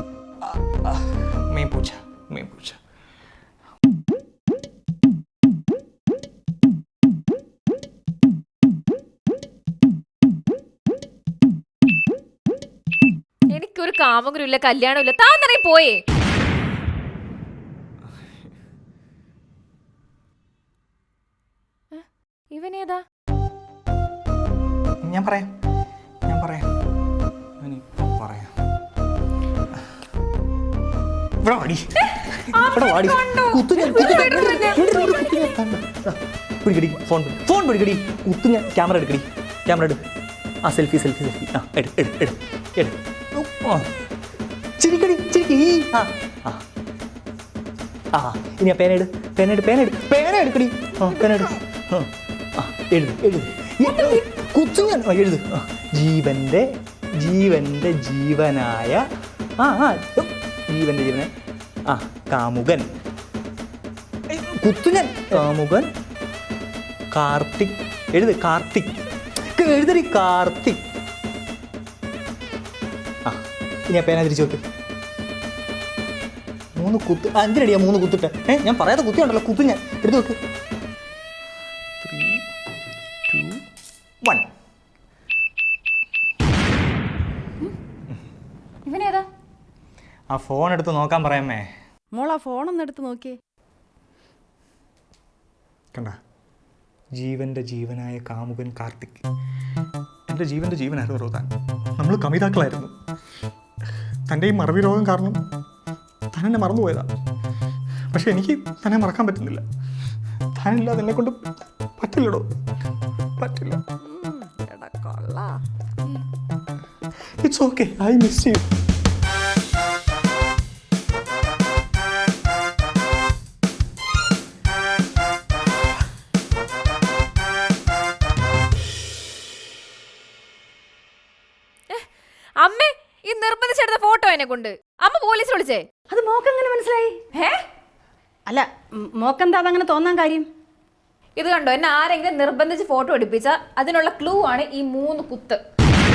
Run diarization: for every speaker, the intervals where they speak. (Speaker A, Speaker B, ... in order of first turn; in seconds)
Speaker A: 0.4-2.8, 25.0-25.5, 26.3-26.7, 27.6-28.5, 31.4-40.0, 40.6-43.9, 44.8-46.6, 48.1-59.0, 59.6-61.3, 61.9-62.9, 64.3-65.9, 67.1-70.8, 73.2-74.6, 76.8-80.4, 82.0-82.4, 83.3-83.6, 90.3-91.7, 97.2-99.2, 100.3-102.9, 104.3-105.4, 106.3-107.1, 108.1-109.6, 110.6-112.5, 113.4-113.8, 117.4-118.6
Speaker B: 13.5-16.0, 21.9-23.0, 32.0-35.5, 53.9-54.2, 88.9-89.2, 131.9-135.9, 137.3-137.6, 141.4-145.6
Speaker C: 92.1-93.4, 114.0-115.6, 136.1-137.2, 138.5-140.5